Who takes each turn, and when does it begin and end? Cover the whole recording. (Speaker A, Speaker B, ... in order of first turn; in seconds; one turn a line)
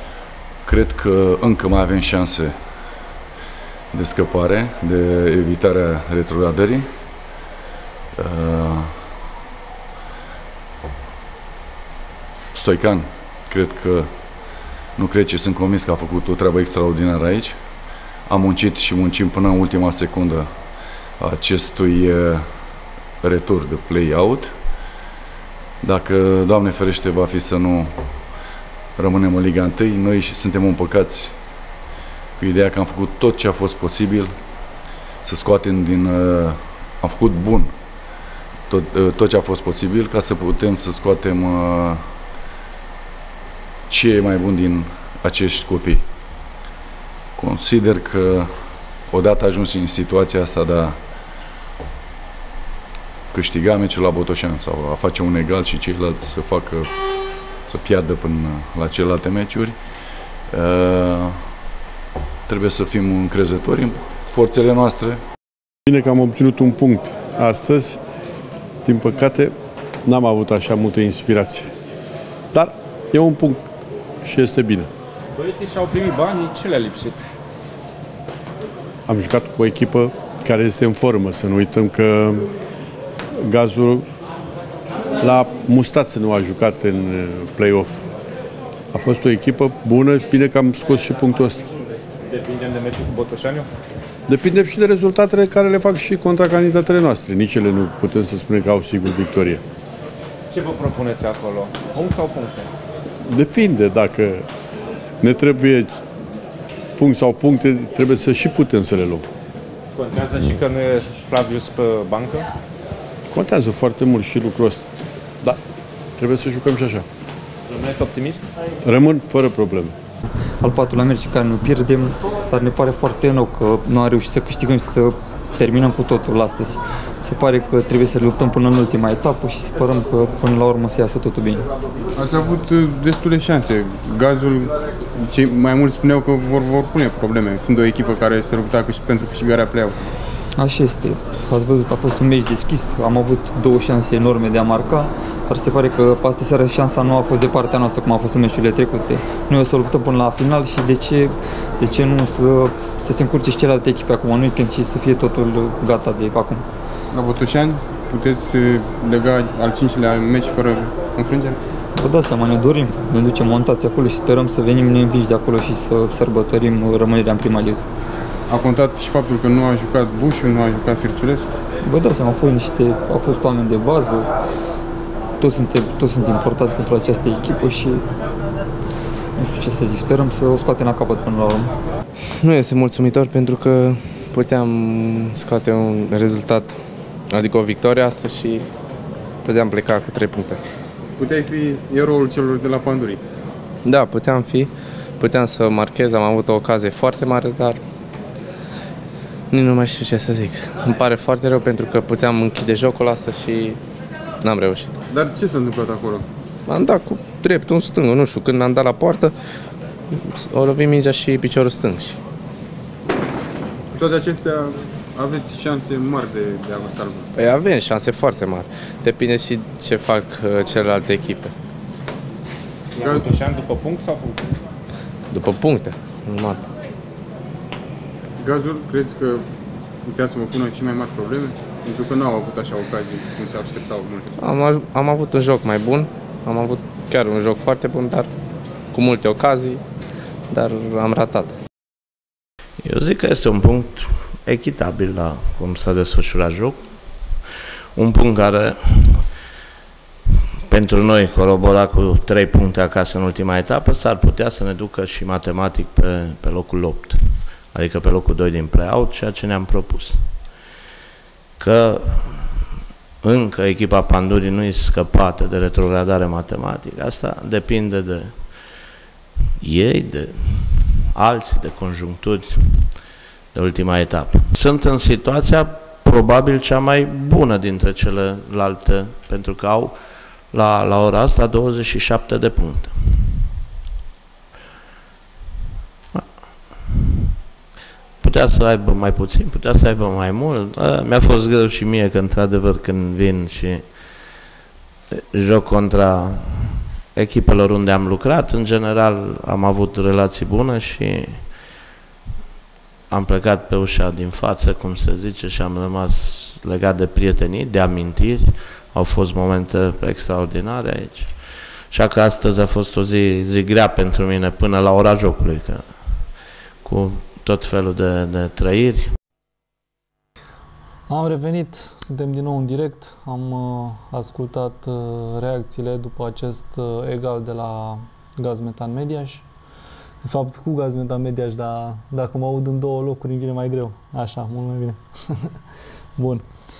Speaker A: 0.6-2.9
Speaker A: 3.9-7.4
Speaker A: 8.1-9.2
Speaker A: 12.5-24.6
Speaker A: 25.8-28.4
Speaker A: 28.9-31.7
Speaker A: 32.4-34.4
Speaker A: 35.2-37.8
Speaker A: 38.7-42.2
Speaker A: 43.9-46.0
Speaker A: 47.4-51.1
Speaker A: 53.3-61.6
Speaker A: 62.5-65.2
Speaker B: 65.8-68.0
Speaker B: 68.8-69.5
Speaker B: 70.0-71.7
Speaker B: 72.5-73.6
Speaker B: 74.2-74.9
Speaker C: 75.3-77.3
Speaker B: 79.0-82.5
Speaker B: 83.4-84.1
Speaker B: 85.2-88.1
Speaker B: 88.9-91.7
Speaker C: 92.3-93.7
Speaker B: 94.3-99.6
Speaker C: 100.5-102.7
Speaker B: 103.2-104.5
Speaker B: 105.2-106.0
Speaker B: 107.0-109.3
Speaker C: 109.9-112.5
Speaker B: 113.3-114.9
Speaker B: 116.2-117.0
Speaker C: 117.7-118.5
Speaker B: 118.8-120.0
Speaker D: 120.6-131.7
Speaker E: 132.2-140.0
Speaker D: 140.6-156.6
Speaker E: 157.1-161.6
Speaker D: 162.0-167.8
Speaker E: 168.5-171.5
Speaker D: 171.8-174.3
Speaker D: 175.4-178.1
Speaker D: 179.4-181.7
Speaker F: 182.3-188.7
Speaker F: 189.4-190.6
Speaker E: 191.2-193.2
Speaker F: 193.8-197.8
Speaker F: 199.5-203.8
Speaker F: 204.4-205.0
Speaker E: 205.1-206.2
Speaker F: 206.7-212.2
Speaker E: 213.9-217.3
Speaker F: 217.3-221.5
Speaker C: 222.9-224.5
Speaker E: 223.0-223.3
Speaker F: 225.3-226.6
Speaker E: 228.4-229.4
Speaker E: 230.0-234.3
Speaker F: 234.4-238.3
Speaker F: 238.9-239.8
Speaker F: 240.5-241.6
Speaker G: 242.8-247.4
Speaker G: 247.9-249.3
Speaker G: 250.7-260.5
Speaker G: 261.6-262.6
Speaker G: 263.2-268.8
Speaker G: 269.6-283.4
Speaker G: 286.1-287.1
Speaker G: 288.2-294.4
Speaker G: 295.1-301.6
Speaker G: 303.1-319.1
Speaker H: 321.1-329.4
Speaker H: 330.2-335.6
Speaker H: 336.1-336.4